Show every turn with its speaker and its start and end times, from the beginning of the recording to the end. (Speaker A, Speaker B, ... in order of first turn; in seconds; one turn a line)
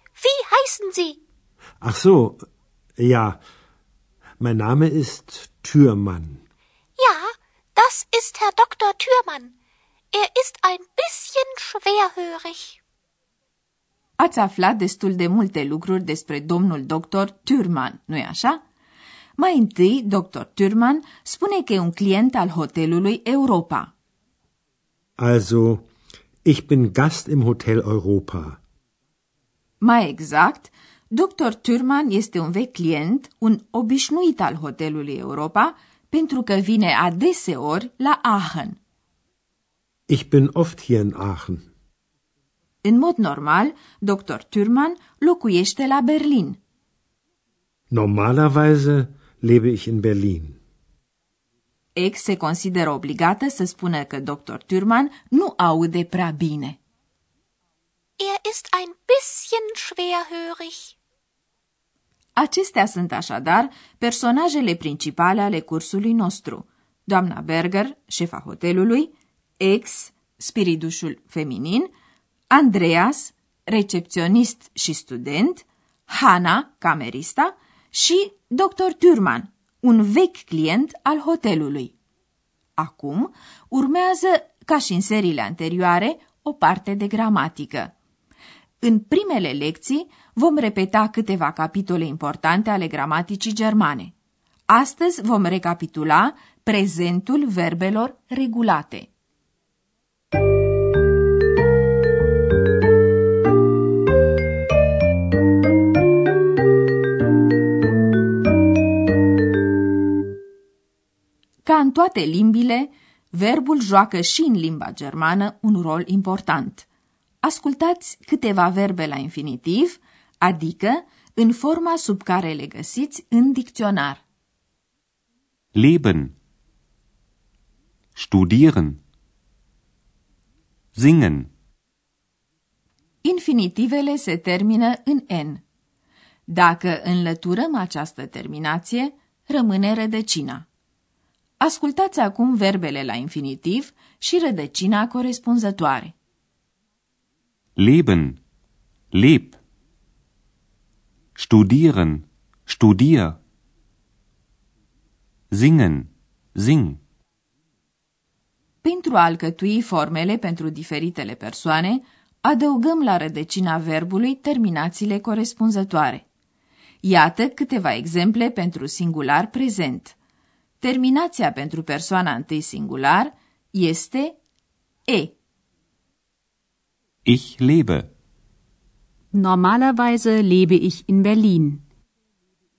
Speaker A: 0.2-1.2
Speaker B: 1.8-2.4
Speaker B: 3.0-3.4
Speaker B: 4.4-6.4
Speaker A: 7.0-9.5
Speaker A: 10.1-12.7
Speaker C: 14.2-18.6
Speaker C: 19.4-23.9
Speaker B: 25.2-25.9
Speaker B: 26.4-28.6
Speaker C: 29.8-38.8
Speaker B: 40.1-41.6
Speaker C: 42.8-46.6
Speaker B: 47.9-50.6
Speaker C: 51.9-56.8
Speaker A: 58.2-60.9
Speaker C: 62.4-71.9
Speaker C: 72.5-81.9
Speaker C: 82.8-87.9
Speaker C: 88.8-94.1
Speaker C: 94.7-99.1
Speaker C: 111.6-116.8
Speaker C: 117.4-124.2
Speaker D: 125.7-126.3
Speaker D: 128.2-129.0
Speaker D: 130.9-131.5
Speaker C: 133.2-135.6
Speaker C: 136.5-140.6
Speaker C: 141.6-146.1
Speaker D: 147.8-148.4
Speaker D: 149.1-149.6
Speaker D: 151.3-153.4
Speaker D: 155.5-157.0
Speaker C: 158.8-166.2
Speaker C: 167.0-170.1
Speaker C: 170.8-174.4
Speaker C: 175.1-175.3
Speaker D: 177.2-178.1
Speaker E: 179.3-181.8